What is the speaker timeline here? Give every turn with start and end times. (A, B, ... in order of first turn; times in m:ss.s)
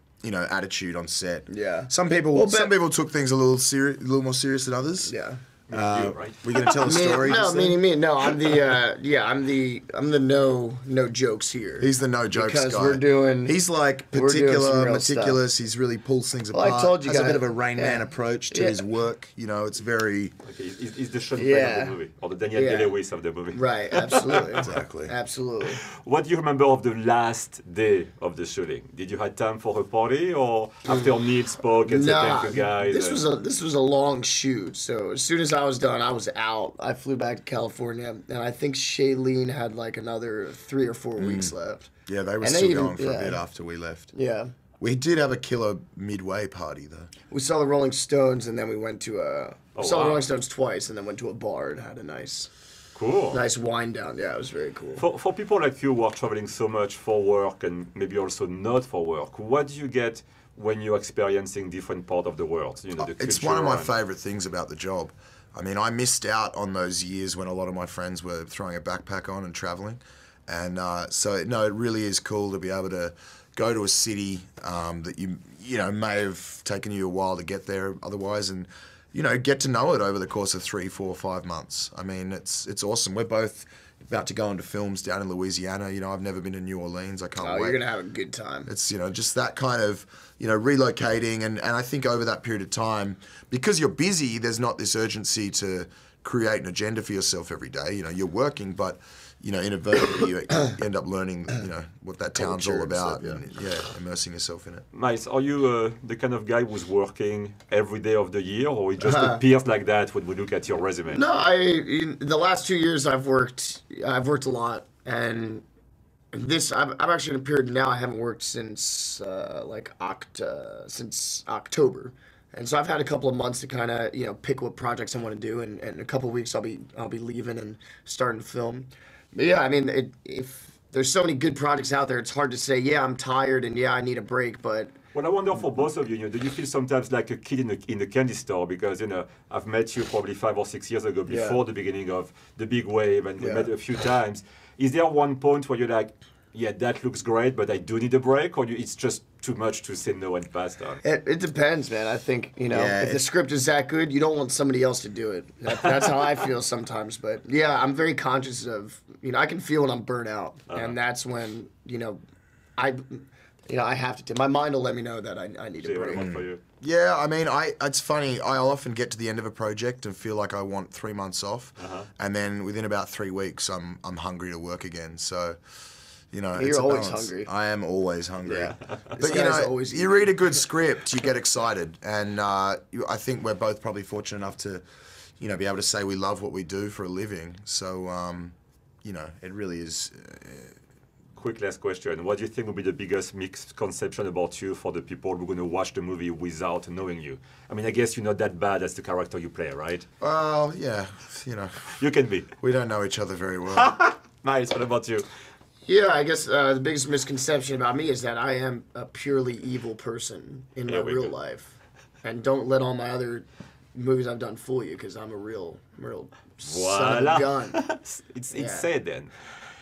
0:00.2-0:05.1 A
0:01.5-0:02.7 B
0:05.0-0:05.4 B
0:05.7-0:07.4 C
0:05.7-0:07.8 A
0:06.8-0:13.6 B
0:11.8-0:20.3 A
0:14.1-0:15.4 B
0:16.5-0:18.8 B
0:20.4-0:24.7 C
0:21.4-0:22.0 B
0:22.5-0:23.0 B
0:23.5-0:25.8 B
0:24.6-0:25.1 A
0:25.7-0:33.2 C
0:30.9-0:31.1 B
0:31.8-0:41.9 B
0:41.2-0:41.5 A
0:42.1-0:44.1 A
0:42.4-0:43.4 B
0:44.1-0:44.5 B
0:44.8-0:47.1 A
0:47.3-0:52.5 B
0:49.8-0:50.2 C
0:52.9-0:53.4 C
0:53.3-0:55.0 B
0:55.0-1:03.9 C
1:03.0-1:27.8 A
1:27.4-1:28.7 B
1:28.6-1:44.8 A
1:42.3-1:43.4 B
1:44.9-1:51.2 C
1:49.0-1:49.4 B
1:51.1-1:55.6 B
1:56.3-2:14.9 B
2:15.1-2:31.0 C
2:21.3-2:21.6 B
2:23.4-2:23.7 B
2:31.0-2:42.2 B
2:32.7-2:33.2 A
2:40.7-2:41.0 C
2:42.8-2:46.3 B
2:45.8-2:46.6 C
2:46.1-2:55.6 A
2:51.8-2:52.1 C
2:56.3-3:04.8 A
2:56.6-2:57.5 B
2:58.4-3:00.4 B
3:05.4-3:10.7 A
3:11.4-3:20.0 C
3:20.2-3:22.0 A
3:22.0-3:22.5 C
3:22.6-3:23.9 A
3:23.7-3:25.2 C
3:25.8-3:37.8 B
3:30.8-3:31.4 C
3:36.6-3:39.3 C
3:38.5-3:38.9 B